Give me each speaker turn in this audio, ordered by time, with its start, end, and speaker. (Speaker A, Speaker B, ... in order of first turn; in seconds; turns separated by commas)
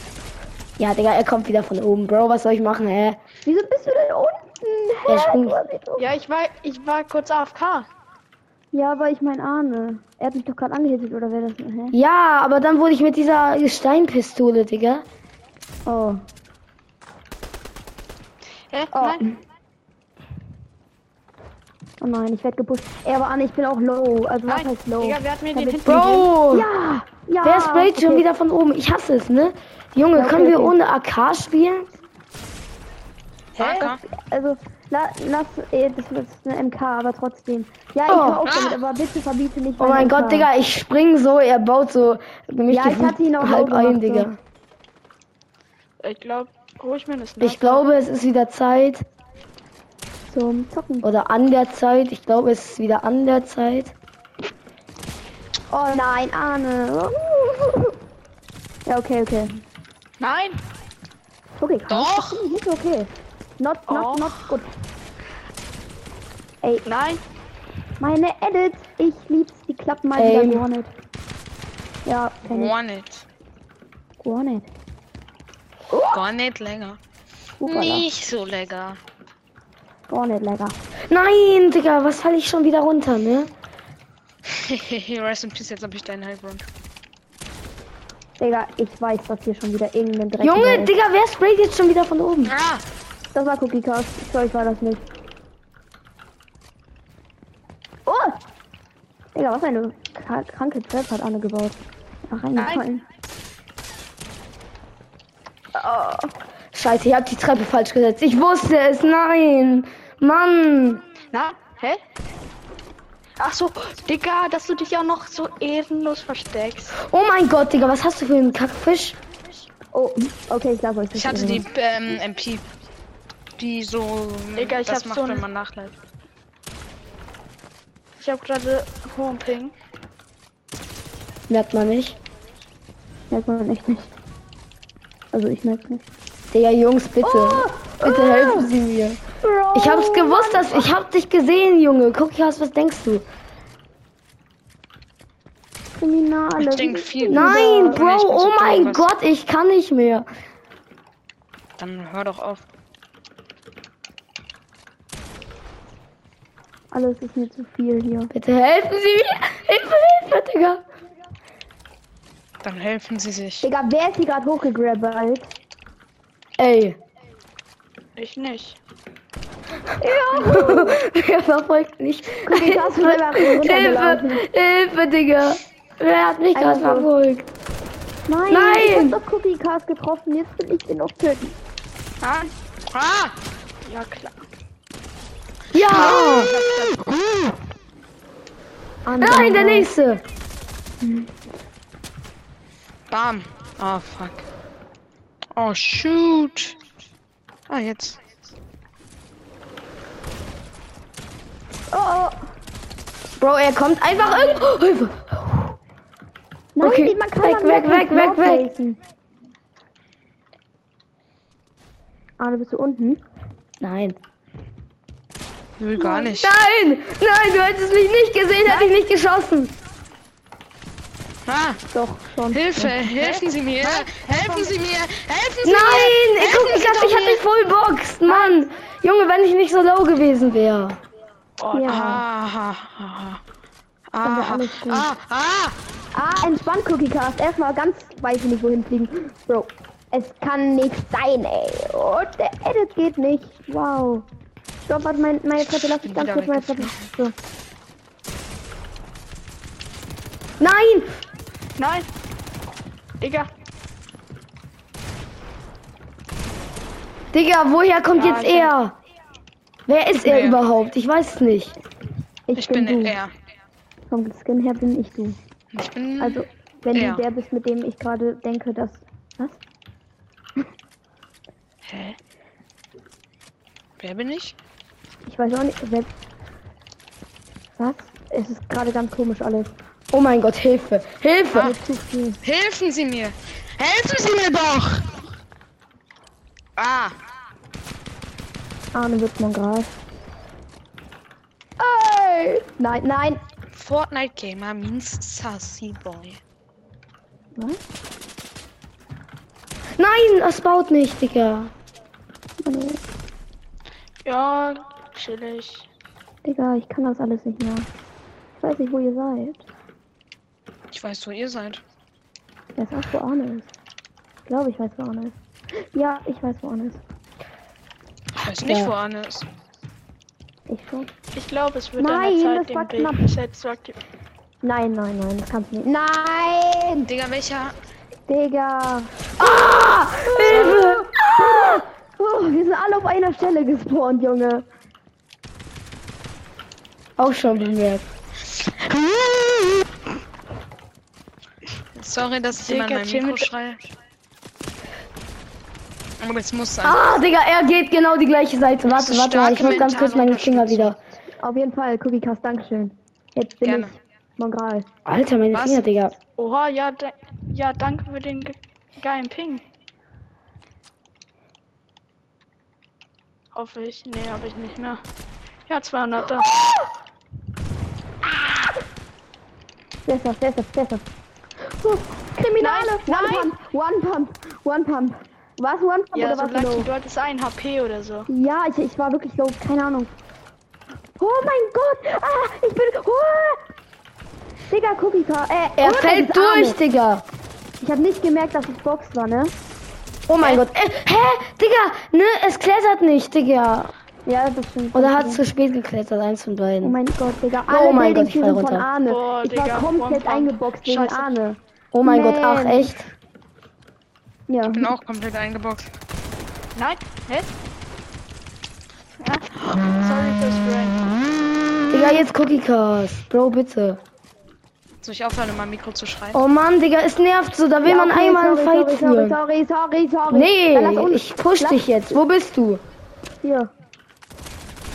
Speaker A: 0.8-3.2, Speaker B: 3.4-6.1, Speaker A: 5.1-5.6, Speaker C: 6.0-7.9, Speaker B: 8.7-11.9, Speaker A: 11.9-15.1, Speaker B: 15.8-16.2, Speaker C: 18.7-19.2, Speaker B: 18.9-19.4, Speaker B: 22.0-28.2, Speaker C: 24.5-26.3, Speaker A: 25.8-26.7, Speaker A: 27.4-31.9, Speaker B: 30.1-30.7, Speaker D: 33.5-34.0, Speaker C: 33.6-33.9, Speaker B: 33.8-40.5, Speaker A: 38.1-38.4, Speaker D: 38.4-38.8, Speaker A: 39.8-44.4, Speaker B: 42.7-44.3, Speaker C: 46.0-47.8, Speaker A: 47.4-49.0, Speaker B: 50.3-51.1, Speaker A: 51.0-53.9, Speaker B: 55.7-58.0, Speaker B: 58.9-59.6, Speaker C: 60.2-60.6, Speaker B: 61.6-64.7, Speaker D: 61.9-62.4, Speaker C: 63.9-64.4, Speaker C: 66.8-67.2, Speaker B: 68.0-70.9, Speaker A: 70.2-70.7, Speaker B: 72.0-72.7, Speaker D: 72.5-73.2, Speaker B: 74.2-74.7, Speaker B: 75.9-76.2, Speaker D: 76.1-77.0, Speaker B: 77.6-78.1, Speaker D: 77.7-79.0, Speaker B: 80.1-80.8, Speaker A: 81.1-83.5, Speaker D: 84.5-86.7, Speaker B: 88.4-90.9, Speaker A: 90.4-92.5, Speaker D: 92.5-92.8, Speaker B: 93.3-95.0, Speaker B: 98.0-98.4, Speaker B: 99.3-103.0, Speaker C: 102.6-102.8, Speaker B: 105.7-106.3, Speaker A: 106.7-111.0, Speaker C: 111.3-112.0, Speaker C: 113.4-117.0, Speaker A: 117.0-119.2, Speaker B: 119.9-121.7, Speaker D: 121.1-122.7, Speaker D: 123.6-125.9, Speaker C: 124.5-125.5, Speaker C: 128.2-129.7, Speaker A: 131.5-132.1, Speaker B: 133.3-134.1, Speaker B: 135.3-136.0, Speaker A: 136.5-139.2, Speaker B: 137.2-138.7, Speaker B: 139.4-140.9, Speaker A: 139.7-143.2, Speaker B: 145.9-148.0, Speaker D: 146.6-149.1, Speaker A: 147.3-150.3, Speaker D: 151.8-152.6, Speaker B: 156.9-158.3, Speaker A: 158.3-160.8, Speaker D: 162.6-163.7, Speaker B: 163.6-165.5, Speaker A: 166.6-167.0, Speaker C: 168.2-168.8, Speaker B: 170.0-171.0, Speaker A: 170.3-177.5, Speaker B: 172.4-174.4, Speaker B: 176.5-177.1, Speaker B: 178.3-181.6, Speaker A: 178.5-179.2, Speaker C: 182.2-182.5, Speaker D: 182.9-183.3, Speaker C: 183.8-184.4, Speaker A: 185.7-186.5, Speaker C: 185.9-187.0, Speaker B: 189.0-189.9, Speaker A: 189.2-190.2, Speaker B: 191.0-191.3, Speaker D: 193.1-194.4, Speaker D: 195.5-196.7, Speaker D: 197.7-198.2, Speaker B: 201.9-202.5, Speaker A: 203.4-205.7, Speaker D: 204.3-204.6, Speaker B: 206.8-209.0, Speaker A: 206.8-208.7, Speaker B: 212.4-213.2, Speaker A: 213.8-214.2, Speaker D: 215.8-216.5, Speaker B: 216.0-216.3, Speaker A: 216.3-219.7, Speaker B: 218.6-218.9, Speaker D: 221.4-221.8, Speaker B: 221.9-222.7, Speaker D: 222.5-227.4, Speaker C: 223.1-224.7, Speaker A: 225.6-231.0, Speaker C: 231.6-232.1, Speaker B: 231.7-232.2, Speaker D: 231.9-233.4, Speaker D: 234.1-235.8, Speaker B: 234.2-235.1, Speaker B: 236.1-244.2, Speaker B: 244.8-247.3, Speaker D: 245.6-247.1, Speaker A: 250.6-251.1, Speaker C: 251.8-252.1, Speaker C: 253.2-253.5, Speaker A: 257.3-258.9, Speaker C: 258.1-258.7, Speaker A: 259.9-261.8, Speaker D: 260.2-260.6, Speaker B: 262.5-263.1, Speaker D: 262.5-263.3, Speaker B: 264.1-265.4, Speaker D: 265.7-267.2, Speaker B: 266.2-269.6, Speaker C: 271.9-272.1, Speaker D: 274.0-274.5, Speaker B: 275.3-276.1, Speaker B: 277.8-279.7, Speaker A: 280.1-281.7, Speaker D: 281.5-281.8, Speaker B: 281.5-282.4, Speaker D: 282.4-285.1, Speaker D: 286.8-287.1, Speaker B: 288.9-289.9, Speaker B: 291.8-293.4, Speaker D: 293.7-296.4, Speaker B: 297.5-297.8, Speaker A: 300.0-301.7, Speaker B: 302.6-303.0, Speaker C: 304.2-305.9, Speaker B: 306.4-307.9, Speaker B: 308.6-309.6, Speaker D: 310.9-311.8, Speaker B: 312.8-313.7, Speaker B: 314.5-317.0, Speaker D: 318.4-319.5, Speaker A: 318.6-318.9, Speaker B: 320.7-321.1, Speaker C: 321.3-324.0, Speaker B: 322.0-323.3, Speaker B: 324.6-327.1, Speaker D: 327.1-327.7, Speaker B: 328.3-329.6, Speaker A: 329.4-331.8, Speaker B: 330.2-334.6, Speaker C: 330.4-330.9, Speaker A: 337.2-338.1, Speaker D: 341.9-343.9, Speaker C: 342.6-343.5, Speaker D: 346.2-347.1, Speaker A: 346.8-351.0, Speaker D: 348.9-351.0, Speaker B: 351.4-354.9, Speaker D: 353.6-353.9, Speaker A: 355.1-356.1, Speaker D: 355.5-355.9, Speaker C: 356.4-359.6, Speaker C: 363.5-365.0, Speaker C: 365.7-366.5, Speaker B: 368.2-368.8, Speaker B: 370.0-371.0, Speaker B: 371.8-376.9, Speaker C: 372.6-373.5, Speaker C: 376.1-378.3, Speaker B: 378.3-380.1, Speaker B: 381.2-383.6, Speaker B: 384.7-386.8, Speaker A: 385.8-387.2, Speaker B: 387.8-389.5, Speaker A: 390.3-393.9, Speaker B: 394.2-395.4, Speaker A: 394.9-397.0, Speaker B: 396.8-403.1, Speaker A: 397.7-398.9, Speaker C: 399.1-401.4, Speaker A: 401.9-403.1, Speaker B: 404.5-404.9, Speaker D: 404.7-405.9, Speaker C: 406.7-407.5, Speaker C: 409.2-411.1, Speaker A: 411.9-414.0, Speaker D: 415.0-416.4, Speaker A: 416.3-419.4, Speaker B: 417.8-422.2, Speaker A: 420.3-422.8, Speaker B: 423.4-423.7